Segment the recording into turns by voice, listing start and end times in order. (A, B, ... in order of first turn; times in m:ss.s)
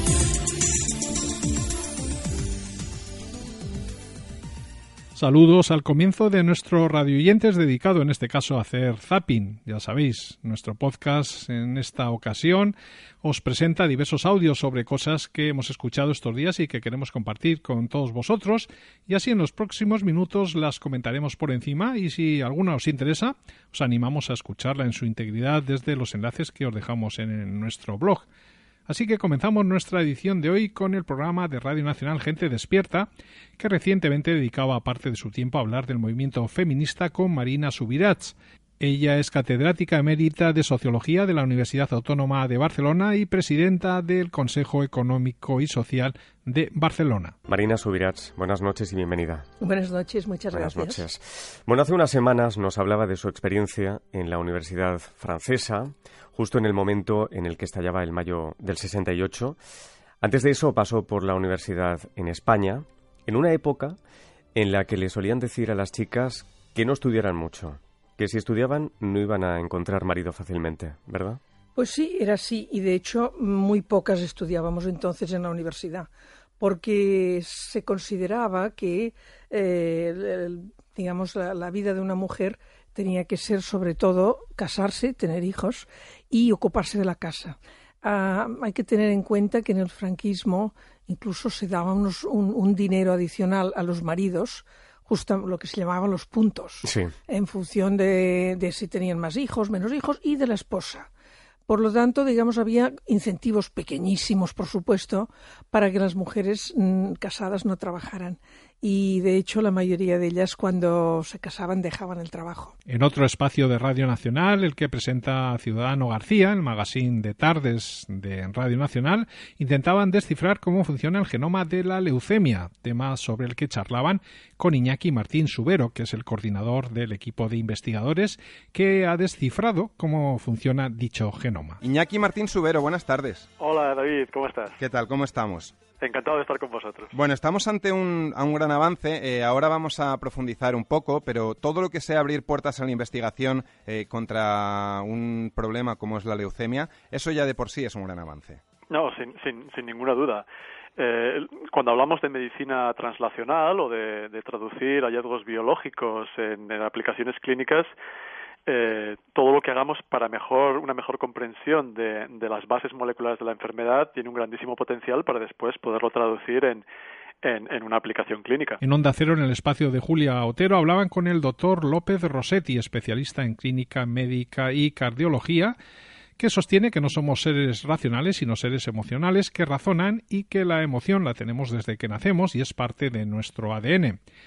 0:05.1-0:28.2 A
0:28.9-0:47.3 A
0:47.5-0:49.4 B
0:49.6-0:51.1 C
0:50.6-0:59.6 B
1:00.2-1:04.0 B
1:04.6-1:11.4 B
1:11.8-1:16.1 C
1:16.6-1:41.1 C
1:36.8-1:37.1 B
1:41.7-1:52.7 C
1:52.9-2:11.8 A
2:11.8-2:13.4 D
2:13.6-2:14.8 E
2:14.8-2:15.7 D
2:16.0-2:17.1 E
2:17.1-2:28.6 D
2:28.9-2:30.4 E
2:31.0-2:37.9 E
2:38.7-2:46.8 E
2:47.4-2:48.8 E
2:48.8-2:55.8 A
2:56.4-3:04.2 A